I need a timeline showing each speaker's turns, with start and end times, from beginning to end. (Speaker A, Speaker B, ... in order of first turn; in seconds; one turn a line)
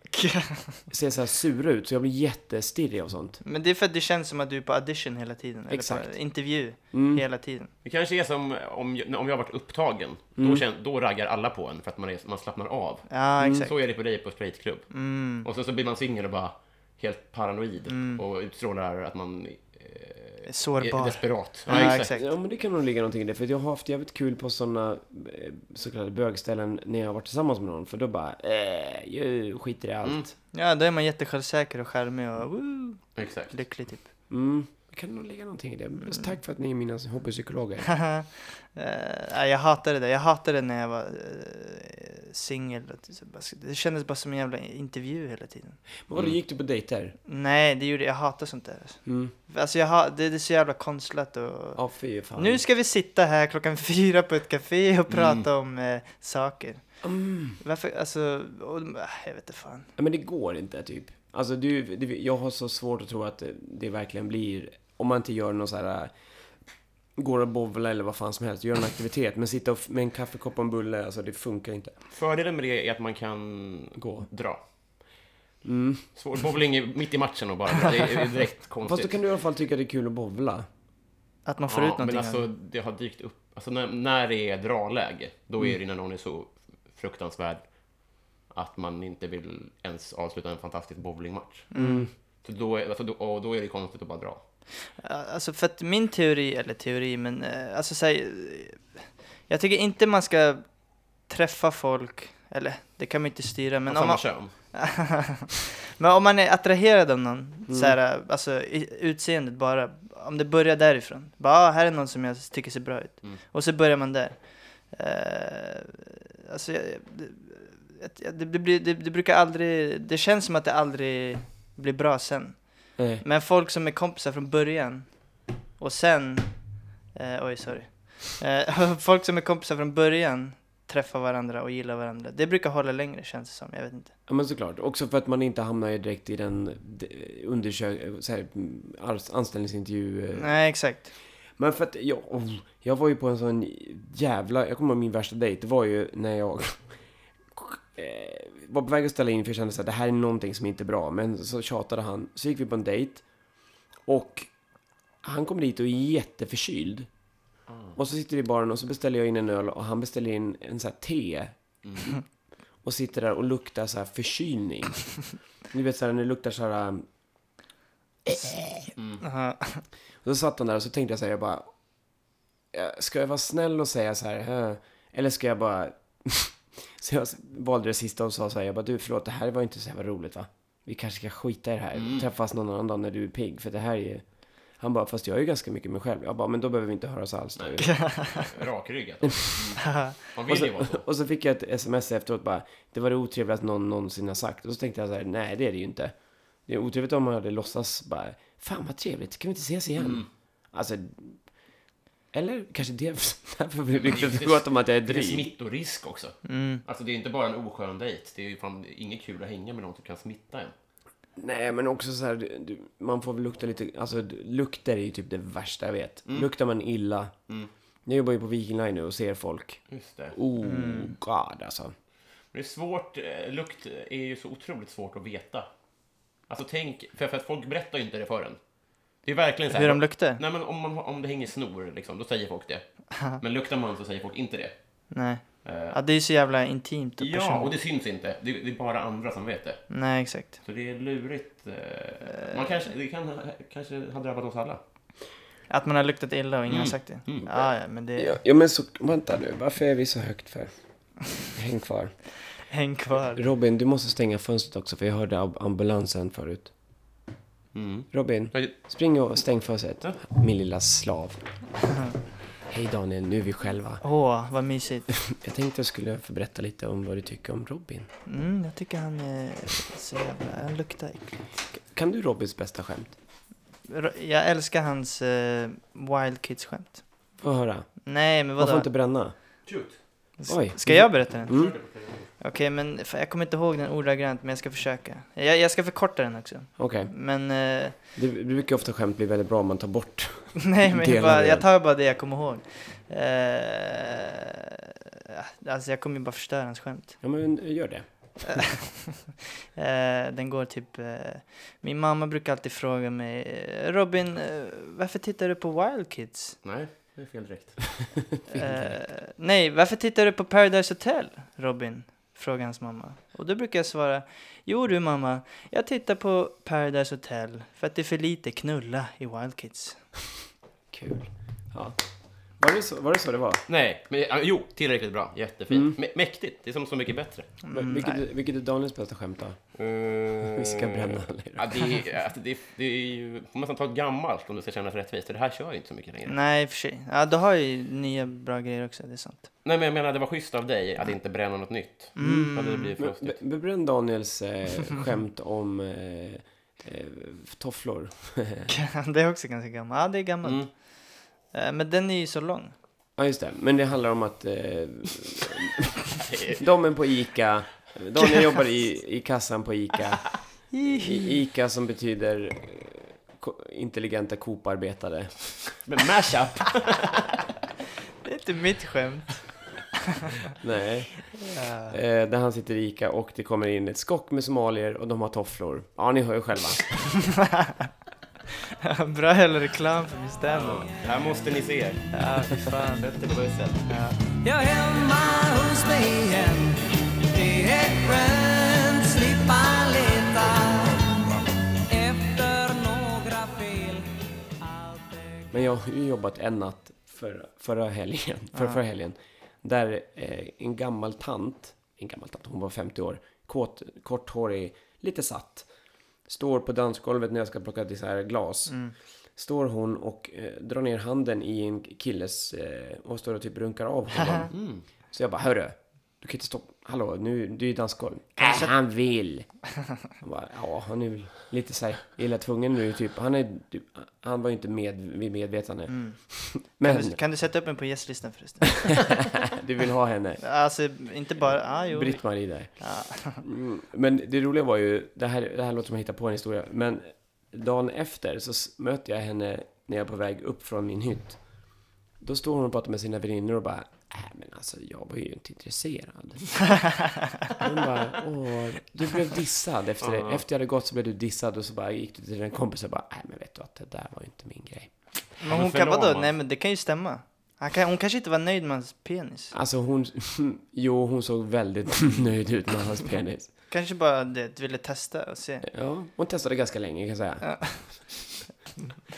Speaker A: 0.1-0.8
Speaker B: 0.9-3.4
Speaker A: 3.4-7.7
Speaker B: 5.7-6.2
Speaker B: 6.9-7.2
Speaker C: 7.8-22.1
Speaker B: 10.4-10.6
Speaker A: 13.1-13.7
Speaker A: 14.9-15.5
Speaker A: 17.9-18.2
Speaker A: 20.5-22.3
Speaker B: 21.7-30.3
Speaker C: 30.0-30.3
Speaker A: 30.5-34.1
Speaker C: 33.1-33.6
Speaker B: 34.3-38.0
Speaker A: 37.9-45.8
Speaker B: 46.1-47.1
Speaker A: 47.3-51.8
Speaker B: 49.1-49.3
Speaker B: 51.8-52.6
Speaker A: 52.4-57.0
Speaker C: 55.1-55.5
Speaker B: 57.0-57.6
Speaker A: 57.6-59.9
Speaker B: 60.0-66.1
Speaker B: 67.2-71.9
Speaker C: 72.1-74.6
Speaker B: 74.0-74.3
Speaker B: 75.6-76.1
Speaker C: 76.2-79.1
Speaker B: 78.8-80.7
Speaker A: 81.5-82.5
Speaker C: 81.7-87.7
Speaker C: 88.5-91.7
Speaker A: 91.7-92.1
Speaker B: 91.8-92.1
Speaker C: 92.4-94.4
Speaker A: 95.0-100.7
Speaker A: 101.2-134.1
Speaker C: 103.9-104.5
Speaker B: 107.7-108.0
Speaker B: 123.0-123.2
Speaker B: 134.3-140.6
Speaker A: 140.3-141.1
Speaker B: 141.6-147.0
Speaker B: 147.5-153.3
Speaker B: 154.1-154.5
Speaker B: 155.2-157.1
Speaker C: 157.7-158.0
Speaker B: 158.0-161.6
Speaker C: 161.8-162.1
Speaker B: 162.8-167.1
Speaker B: 168.3-168.9
Speaker C: 169.0-169.2
Speaker A: 169.2-169.8
Speaker B: 170.2-171.7
Speaker B: 172.7-187.9
Speaker C: 181.9-182.3
Speaker C: 187.6-191.0
Speaker A: 187.8-188.5
Speaker A: 189.8-190.2
Speaker B: 190.5-201.5
Speaker C: 200.0-200.3
Speaker B: 202.3-205.5
Speaker C: 204.0-210.7
Speaker A: 206.4-206.8
Speaker B: 211.4-217.3
Speaker B: 218.1-219.8
Speaker C: 219.9-220.4
Speaker B: 220.3-221.9
Speaker A: 220.6-221.1
Speaker C: 222.5-225.7
Speaker C: 226.5-228.6
Speaker C: 229.2-234.7
Speaker A: 229.7-230.4
Speaker A: 233.1-233.4
Speaker A: 235.1-237.7
Speaker C: 235.6-236.0
Speaker C: 237.2-239.9
Speaker A: 239.9-240.6
Speaker C: 240.6-244.8
Speaker A: 245.7-248.4
Speaker C: 246.7-247.5
Speaker B: 248.2-250.7
Speaker B: 251.5-252.1
Speaker A: 252.7-253.4
Speaker B: 253.3-256.7
Speaker C: 257.7-258.8
Speaker B: 258.1-261.5
Speaker B: 262.6-264.0
Speaker A: 264.0-265.1
Speaker B: 265.2-268.1
Speaker A: 268.3-271.4
Speaker B: 271.7-273.1
Speaker A: 273.9-277.0
Speaker B: 277.4-279.4
Speaker A: 278.1-278.9
Speaker C: 279.6-280.0
Speaker A: 280.4-288.0
Speaker B: 280.5-281.8
Speaker C: 281.4-282.3
Speaker B: 286.8-287.1
Speaker B: 288.1-291.6
Speaker A: 290.6-297.2
Speaker B: 297.2-298.6
Speaker A: 298.5-306.6
Speaker C: 306.6-308.2
Speaker B: 308.5-308.8
Speaker A: 308.5-320.0
Speaker B: 320.9-322.0
Speaker B: 322.6-323.6
Speaker C: 323.7-327.5
Speaker B: 325.7-326.0
Speaker A: 327.6-328.2
Speaker B: 327.7-329.6
Speaker C: 329.8-336.4
Speaker B: 330.4-332.0
Speaker A: 336.3-339.5
Speaker C: 339.6-343.4
Speaker A: 342.1-342.9
Speaker B: 342.2-348.7
Speaker A: 348.7-352.8
Speaker C: 350.4-350.7
Speaker B: 353.2-356.0
Speaker C: 356.3-356.6
Speaker B: 356.6-365.4
Speaker A: 360.7-361.3
Speaker C: 365.9-367.3
Speaker A: 368.2-369.6
Speaker B: 370.6-376.9
Speaker A: 371.3-372.0
Speaker A: 377.2-377.9
Speaker A: 378.8-380.9
Speaker C: 380.5-384.0
Speaker A: 382.1-383.1
Speaker A: 383.9-384.2
Speaker D: 384.3-395.5
Speaker B: 395.5-405.7
Speaker A: 398.5-398.8
Speaker B: 406.3-408.8
Speaker A: 408.7-408.9
Speaker B: 409.4-414.6
Speaker A: 414.2-414.5
Speaker C: 414.5-414.8
Speaker B: 415.1-419.6
Speaker A: 418.4-418.7
Speaker B: 420.1-427.2
Speaker A: 425.9-429.2
Speaker B: 428.9-430.4
Speaker A: 430.4-433.4
Speaker B: 431.9-446.9
Speaker B: 447.6-454.9
Speaker C: 450.0-450.4
Speaker A: 455.4-459.5
Speaker C: 455.4-456.3
Speaker B: 459.5-463.5
Speaker A: 463.7-465.7
Speaker B: 465.6-468.1
Speaker A: 467.4-467.9